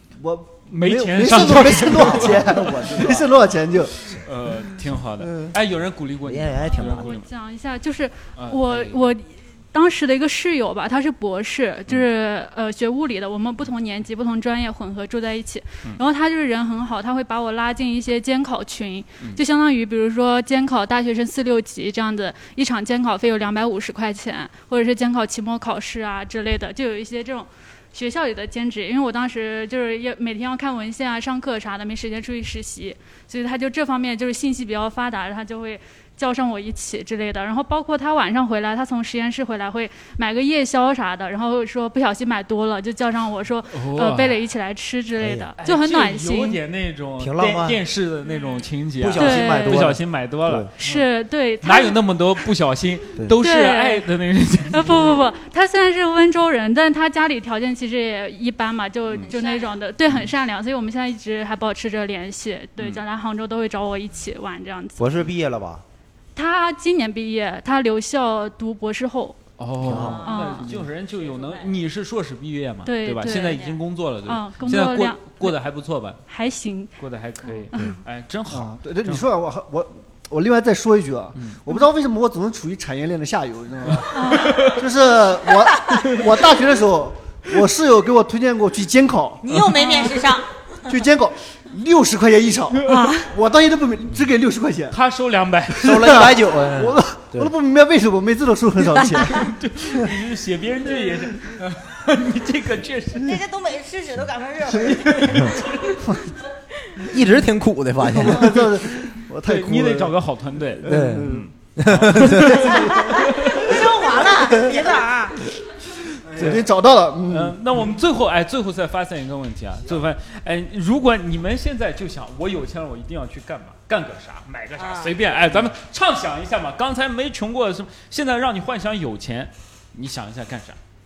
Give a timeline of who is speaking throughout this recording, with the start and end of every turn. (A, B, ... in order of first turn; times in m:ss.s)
0:00.2-0:03.9 A
0:00.7-0:02.6 B
0:01.2-0:03.4 C
0:04.1-0:07.3 B
0:05.2-0:05.5 A
0:06.2-0:07.1 C
0:06.6-0:46.6 D
0:08.4-0:09.1 B
0:43.7-0:44.4 B
0:45.2-0:45.5 C
0:45.6-0:50.7 B
0:47.2-0:47.8 C
0:49.0-0:50.7 C
0:49.2-0:49.8 D
0:50.8-0:52.0 D
0:50.8-0:51.1 A
0:51.6-0:55.1 B
0:53.4-0:54.1 D
0:54.7-1:05.2 D
0:59.2-0:59.8 E
1:02.8-1:03.0 B
1:05.0-1:05.8 C
1:06.3-1:09.4 D
1:09.6-1:16.2 B
1:09.8-1:10.2 C
1:09.9-1:11.7 E
1:10.2-1:10.7 D
1:12.8-1:13.6 D
1:13.3-1:13.8 E
1:14.2-1:15.6 D
1:16.3-1:16.9 D
1:17.0-1:19.3 B
1:18.5-1:29.9 A
1:23.8-1:24.8 B
1:24.1-1:24.5 D
1:29.4-1:30.4 E
1:30.9-1:35.0 A
1:32.8-1:33.1 B
1:34.9-1:35.9 B
1:35.7-1:40.1 A
1:35.8-1:37.5 C
1:39.3-1:43.4 B
1:43.2-1:45.7 E
1:45.1-1:45.5 B
1:47.0-1:48.8 C
1:48.1-1:50.2 A
1:49.4-1:53.6 B
1:50.8-1:51.4 A
1:50.8-1:52.9 C
1:52.2-1:55.0 A
1:52.7-1:55.4 E
1:56.3-1:57.6 A
1:56.4-1:56.6 B
1:57.3-2:10.8 B
2:04.8-2:05.1 E